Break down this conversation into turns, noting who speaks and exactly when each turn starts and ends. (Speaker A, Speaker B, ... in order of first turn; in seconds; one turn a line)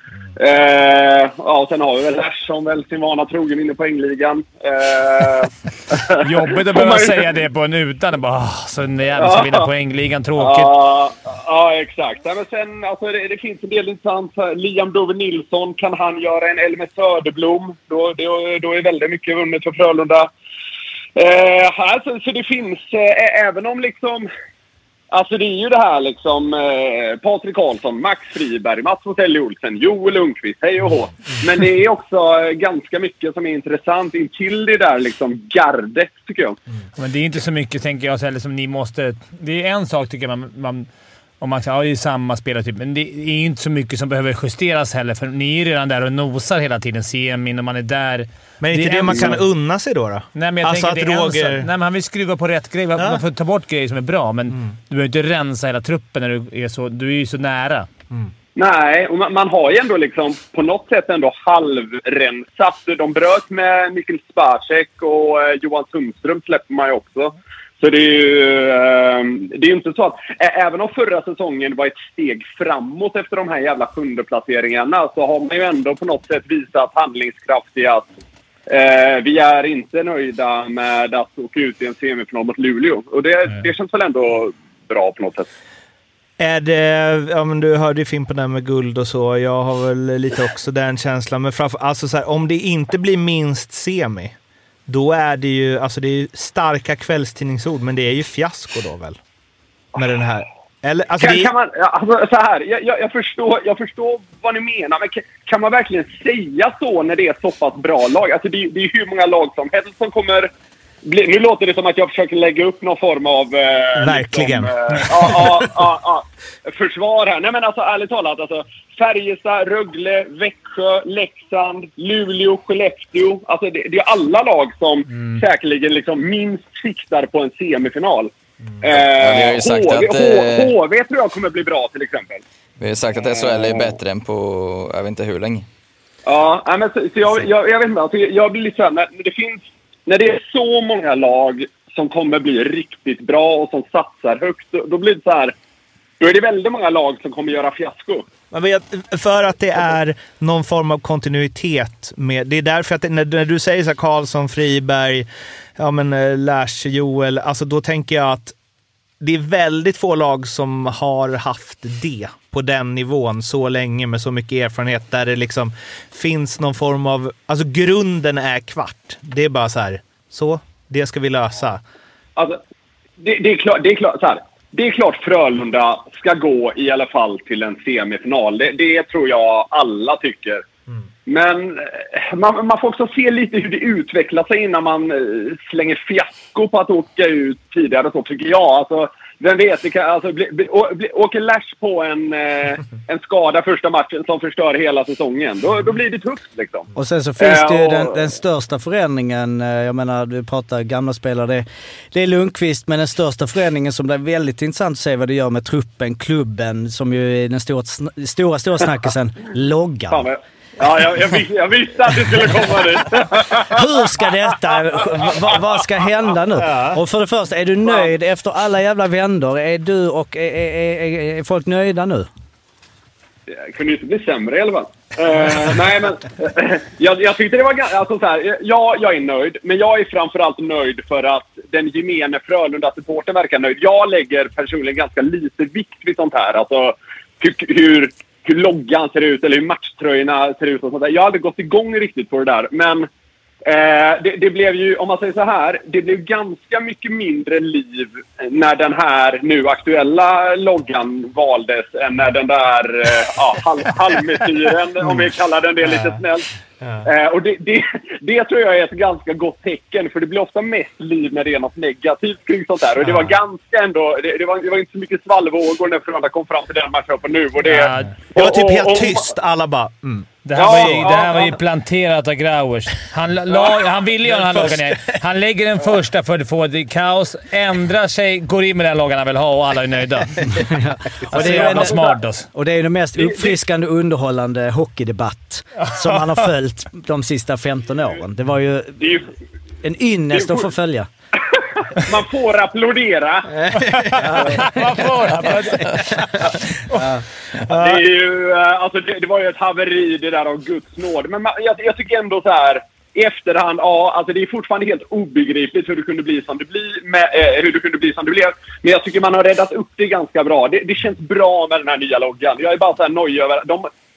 Speaker A: 0.4-7.2
Speaker B: 6.2-10.7
Speaker A: 9.2-9.7
Speaker A: 10.4-20.3
Speaker A: 21.2-24.3
Speaker A: 25.1-36.6
Speaker B: 37.0-40.9
Speaker B: 41.4-49.4
Speaker C: 48.6-51.7
Speaker B: 50.3-57.9
Speaker C: 53.0-53.2
Speaker A: 58.5-78.1
Speaker A: 78.7-85.5
Speaker C: 86.4-94.4
Speaker C: 94.9-99.2
Speaker C: 100.0-101.5
Speaker A: 101.2-110.5
Speaker A: 111.0-132.4
Speaker C: 114.0-115.7
Speaker D: 128.9-130.8
Speaker D: 132.8-135.7
Speaker A: 133.2-134.0
Speaker A: 136.3-145.6
Speaker A: 146.2-148.3
Speaker C: 148.5-158.6
Speaker C: 159.2-171.8
Speaker A: 172.4-172.6
Speaker A: 173.2-180.6
Speaker A: 181.3-198.2
Speaker E: 197.0-210.3
Speaker A: 210.1-215.6
Speaker E: 213.6-222.3
Speaker C: 216.7-217.0
Speaker A: 217.8-218.1
Speaker A: 223.5-243.1
Speaker A: 243.6-256.5
Speaker C: 255.8-256.2
Speaker C: 256.8-257.1
Speaker A: 257.0-269.3
Speaker C: 263.0-263.4
Speaker B: 267.6-268.1
Speaker C: 268.3-271.1
Speaker B: 270.4-280.7
Speaker A: 270.6-271.5
Speaker C: 274.2-275.1
Speaker E: 280.7-289.2
Speaker B: 281.2-282.5
Speaker A: 281.3-282.1
Speaker A: 283.2-283.5
Speaker A: 289.0-289.3
Speaker E: 289.8-291.1
Speaker A: 290.3-290.7
Speaker A: 291.5-293.7
Speaker C: 293.5-294.7
Speaker B: 293.9-296.1
Speaker E: 294.2-294.8
Speaker C: 295.9-296.7
Speaker E: 297.0-297.2
Speaker C: 297.6-298.1
Speaker A: 297.7-313.9